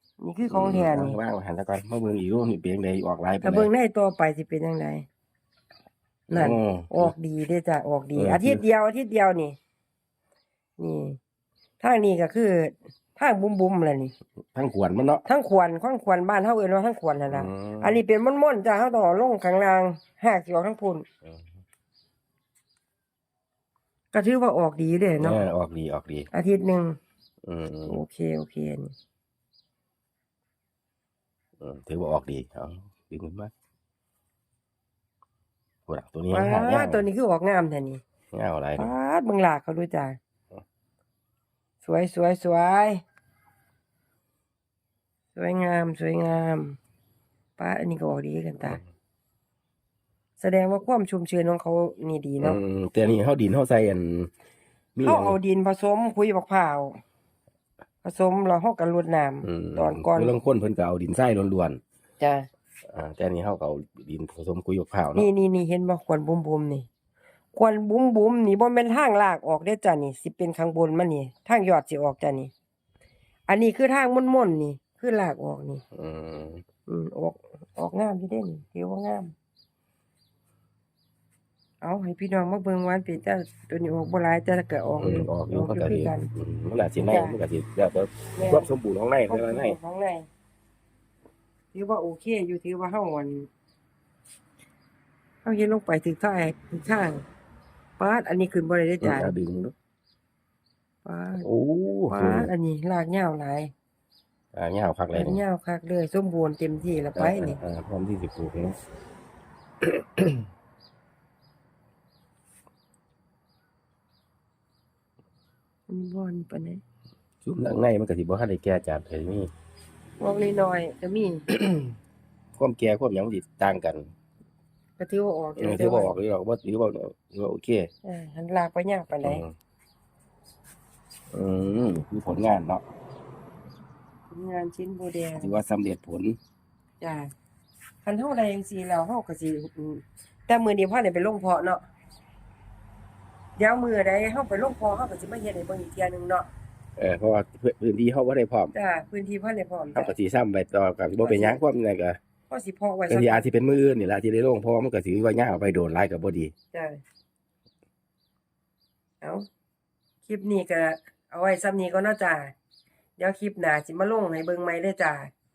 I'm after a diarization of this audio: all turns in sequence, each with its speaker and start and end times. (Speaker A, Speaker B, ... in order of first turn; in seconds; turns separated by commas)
Speaker A: 0.2-1.2, Speaker B: 0.5-3.7, Speaker A: 3.4-5.1, Speaker B: 6.3-7.1, Speaker A: 6.3-9.6, Speaker B: 8.2-8.6, Speaker A: 10.8-11.2, Speaker A: 11.8-14.1, Speaker B: 14.5-15.2, Speaker A: 15.2-21.1, Speaker B: 17.3-18.0, Speaker A: 24.1-25.4, Speaker B: 25.2-26.3, Speaker A: 26.3-27.0, Speaker B: 27.4-28.0, Speaker A: 27.9-28.9, Speaker B: 31.6-33.5, Speaker B: 35.9-37.0, Speaker A: 36.3-38.0, Speaker B: 38.3-38.9, Speaker A: 38.8-40.2, Speaker A: 41.8-43.0, Speaker A: 45.4-46.8, Speaker A: 47.6-48.8, Speaker A: 50.4-52.6, Speaker B: 52.4-54.3, Speaker B: 55.0-55.4, Speaker A: 55.0-57.0, Speaker A: 58.0-60.3, Speaker B: 59.4-61.8, Speaker A: 62.2-62.5, Speaker B: 62.9-65.3, Speaker A: 65.2-66.9, Speaker A: 67.5-72.5, Speaker A: 73.5-75.8, Speaker B: 75.9-76.6, Speaker A: 76.9-79.3, Speaker A: 81.8-86.3, Speaker B: 85.0-89.8, Speaker A: 87.0-87.3, Speaker A: 88.4-88.7, Speaker A: 89.3-90.3, Speaker A: 91.7-93.5, Speaker A: 95.4-97.2, Speaker A: 98.0-99.3, Speaker B: 99.0-99.7, Speaker A: 101.0-101.5, Speaker B: 101.4-102.5, Speaker A: 102.1-103.7, Speaker B: 104.5-105.4, Speaker A: 105.1-107.6, Speaker B: 107.2-108.8, Speaker B: 109.8-110.4, Speaker A: 115.9-116.8, Speaker B: 117.4-119.5, Speaker A: 120.2-121.5, Speaker B: 121.5-121.9, Speaker B: 122.6-124.1, Speaker A: 125.0-126.1, Speaker B: 125.6-127.9, Speaker A: 128.0-129.4, Speaker B: 129.2-129.5, Speaker B: 131.3-132.8, Speaker A: 134.3-135.6, Speaker B: 135.4-136.4, Speaker A: 137.0-137.3, Speaker A: 138.0-141.8, Speaker A: 143.6-146.5, Speaker B: 147.0-148.7, Speaker A: 148.7-150.1, Speaker B: 149.9-152.2, Speaker A: 151.2-151.6, Speaker A: 152.5-153.4, Speaker B: 153.1-156.5, Speaker A: 156.7-157.0, Speaker A: 159.2-159.5, Speaker A: 160.2-162.5, Speaker A: 163.2-165.3